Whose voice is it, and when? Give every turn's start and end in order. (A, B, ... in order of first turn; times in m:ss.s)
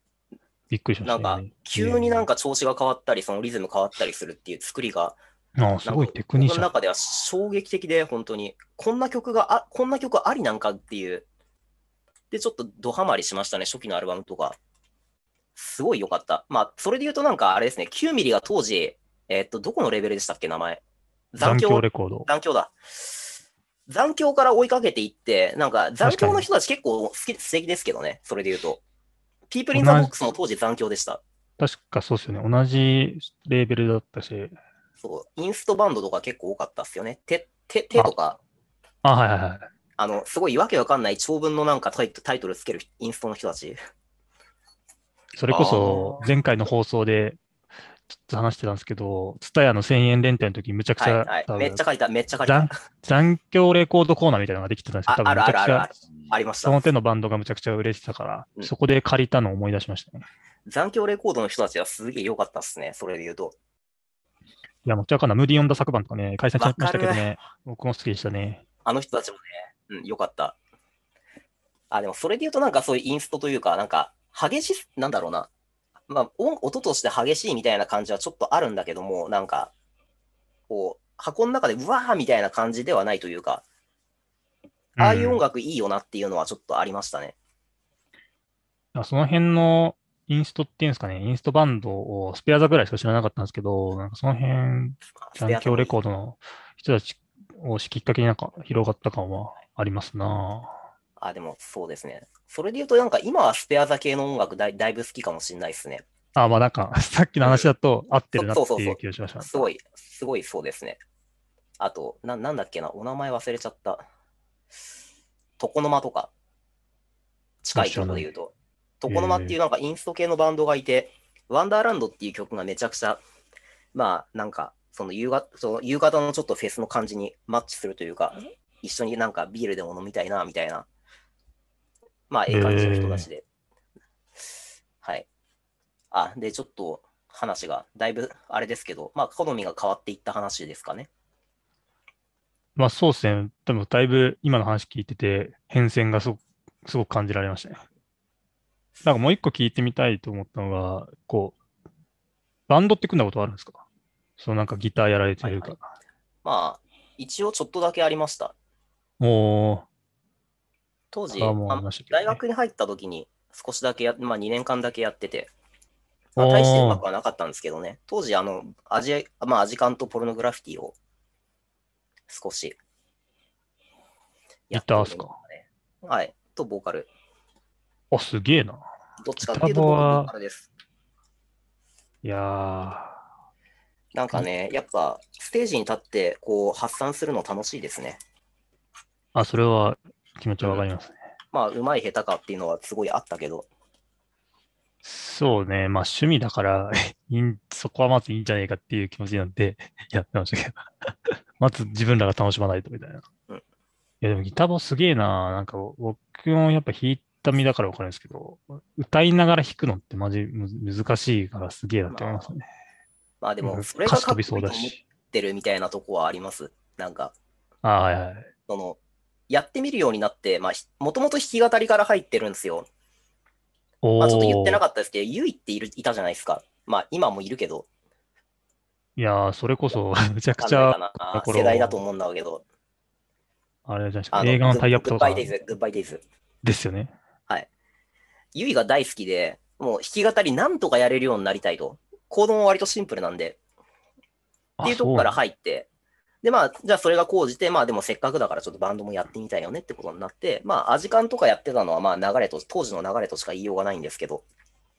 0:00.7-0:02.2 A
0:01.0-0:05.2 B
0:05.6-0:06.7 A
0:05.8-0:11.2 B
0:12.3-0:14.6 B
0:15.6-0:20.8 B
0:21.3-0:22.8 B
0:21.4-0:22.3 A
0:23.9-0:28.8 B
0:26.0-0:26.4 A
0:29.5-0:31.2 B
0:29.7-0:30.1 A
0:31.6-0:34.6 A
0:35.0-0:38.4 B
0:39.0-0:39.7 A
0:40.0-0:43.8 B
0:45.3-0:47.4 A
0:45.6-0:46.2 B
0:48.1-0:51.8 A
0:51.0-0:52.7 B
0:52.4-0:55.9 A
0:55.1-0:56.8 B
0:56.6-1:00.2 A
1:00.7-1:03.5 B
1:04.8-1:08.6 A
1:06.6-1:07.2 B
1:08.8-1:10.6 B
1:11.9-1:15.5 B
1:16.1-1:19.7 B
1:20.7-1:23.6 B
1:25.0-1:25.4 A
1:25.0-1:27.3 B
1:28.9-1:40.8 A
1:35.3-1:35.9 B
1:41.2-1:46.0 B
1:46.4-1:49.7 A
1:47.4-1:47.7 B
1:48.3-1:51.0 B
1:51.8-1:54.0 B
1:55.6-1:56.3 B
1:57.6-2:03.2 B
1:57.7-1:58.2 A
1:59.1-1:59.6 A
2:03.9-2:10.8 B
2:12.3-2:13.4 B
2:12.5-2:13.2 A
2:16.1-2:21.1 B
2:22.8-2:27.8 A
2:29.0-2:31.6 A
2:32.7-2:33.8 A
2:34.4-2:35.9 A
2:35.4-2:35.7 B
2:36.4-2:38.5 B
2:39.2-2:39.8 A
2:41.1-2:45.5 B
2:41.3-2:42.4 A
2:46.4-2:50.9 B
2:46.4-2:47.0 A
2:52.3-2:52.8 B
2:54.7-2:57.1 B
2:54.7-2:55.4 A
2:58.1-2:58.8 A
2:59.2-3:00.7 B
2:59.4-3:00.3 A
3:02.2-3:03.2 A
3:04.1-3:08.2 B
3:09.3-3:11.2 A
3:11.5-3:13.7 B
3:15.0-3:23.2 A
3:24.2-3:32.6 A
3:32.1-3:32.5 B
3:33.4-3:37.3 B
3:33.6-3:35.0 A
3:37.8-3:38.5 A
3:38.7-3:39.0 B
3:39.5-3:42.9 B
3:44.0-3:44.8 A
3:44.2-3:47.9 B
3:49.2-3:52.0 A
3:50.6-3:52.6 B
3:53.9-3:55.5 A
3:54.3-3:56.2 B
3:56.6-3:57.1 A
3:58.5-4:03.6 B
4:04.8-4:05.4 A
4:04.8-4:05.9 B
4:06.4-4:14.4 B